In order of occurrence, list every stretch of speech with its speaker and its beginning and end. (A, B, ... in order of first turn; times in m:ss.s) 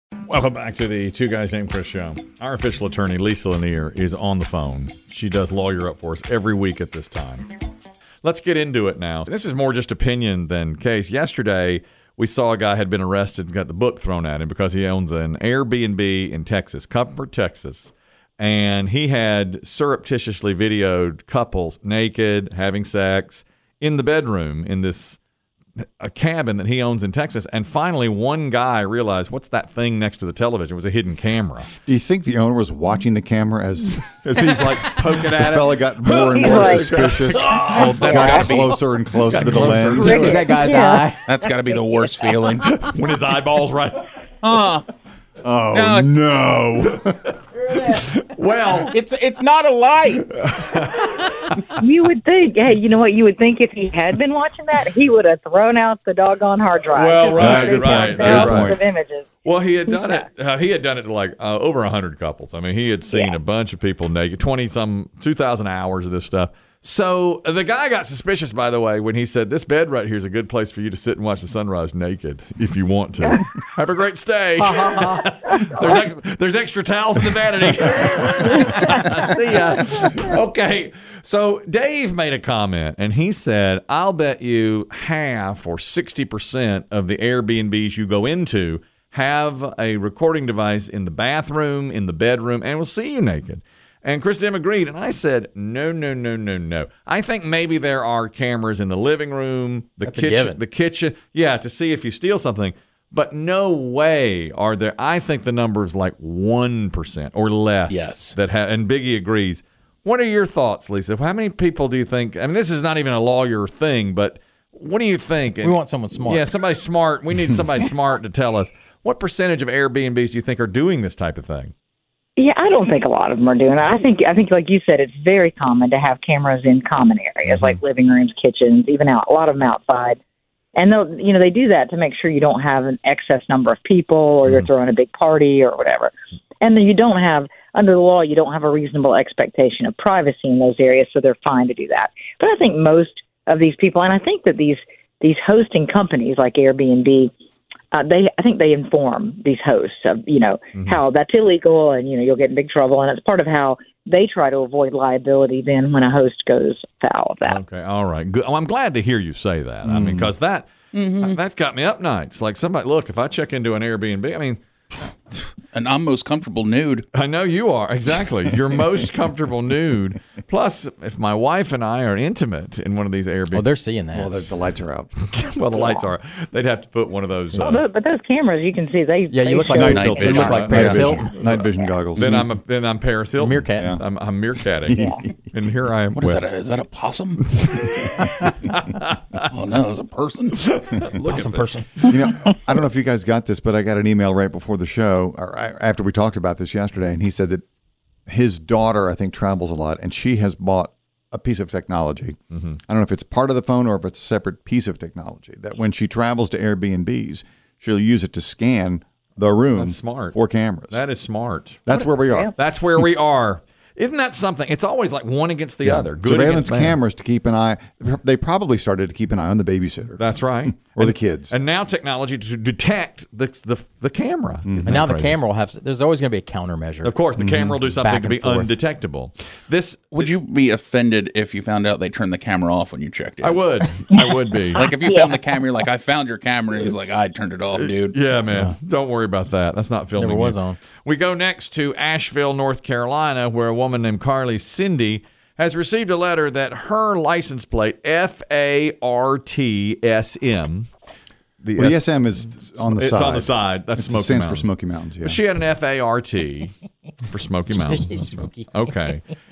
0:00.3-0:07.5 A
0:08.2-0:25.2 A
0:26.0-0:31.7 A
0:31.8-0:34.1 B
0:34.0-0:38.4 A
0:35.2-0:40.3 B
0:36.3-0:36.9 C
0:37.3-0:38.8 D
0:39.3-0:40.3 A
0:39.4-0:41.2 E
0:39.7-0:40.4 D
0:40.0-0:41.1 C
0:41.2-0:42.8 D
0:42.7-0:44.1 A
0:44.4-0:44.8 D
0:45.4-0:47.3 B
0:45.7-0:46.2 D
0:47.7-0:48.9 A
0:48.8-0:50.3 D
0:50.4-0:51.6 A
0:51.8-0:59.2 C
0:56.9-0:58.8 A
0:57.3-0:58.8 B
0:59.4-2:01.7 A
1:03.1-1:03.4 C
1:40.0-1:40.6 E
1:47.9-1:48.4 E
1:55.6-1:56.6 E
2:02.4-2:10.2 C
2:07.5-2:07.8 A
2:10.8-2:27.3 C
2:27.9-2:37.6 C
2:37.4-2:44.6 A
2:39.8-2:40.3 B
2:40.9-2:41.4 D
2:45.7-2:47.0 D
2:47.1-2:53.6 A
2:53.5-2:54.3 E
2:54.1-2:55.1 B
2:55.3-2:57.8 A
2:55.7-2:56.0 C
2:57.6-3:00.5 C
2:59.3-3:01.3 E
2:59.7-3:02.4 B
2:59.8-3:01.2 D
3:00.2-3:06.4 A
3:03.4-3:04.0 E
3:04.9-3:05.2 B
3:04.9-3:05.2 C
3:06.1-3:07.6 D
3:07.6-3:09.2 A
3:09.4-3:10.7 D
3:10.7-3:11.7 A
3:11.1-3:12.0 E
3:12.0-3:17.6 B
3:18.3-3:31.0 B
3:22.5-3:22.8 A
3:29.7-3:30.4 A
3:30.9-3:37.0 A
3:31.9-3:32.5 B
3:35.8-3:41.5 B
3:40.2-3:45.4 A
3:44.6-3:45.0 B
3:44.8-3:47.3 E
3:47.0-3:50.3 A
3:47.4-3:47.9 B
3:48.0-3:48.8 E
3:50.1-3:53.7 D
3:53.4-3:54.9 A
3:54.7-3:58.2 D
3:57.8-4:10.9 A
4:00.2-4:00.8 E
4:11.6-4:14.7 A
4:11.8-4:15.4 B
4:15.2-4:19.2 A
4:17.7-4:19.2 E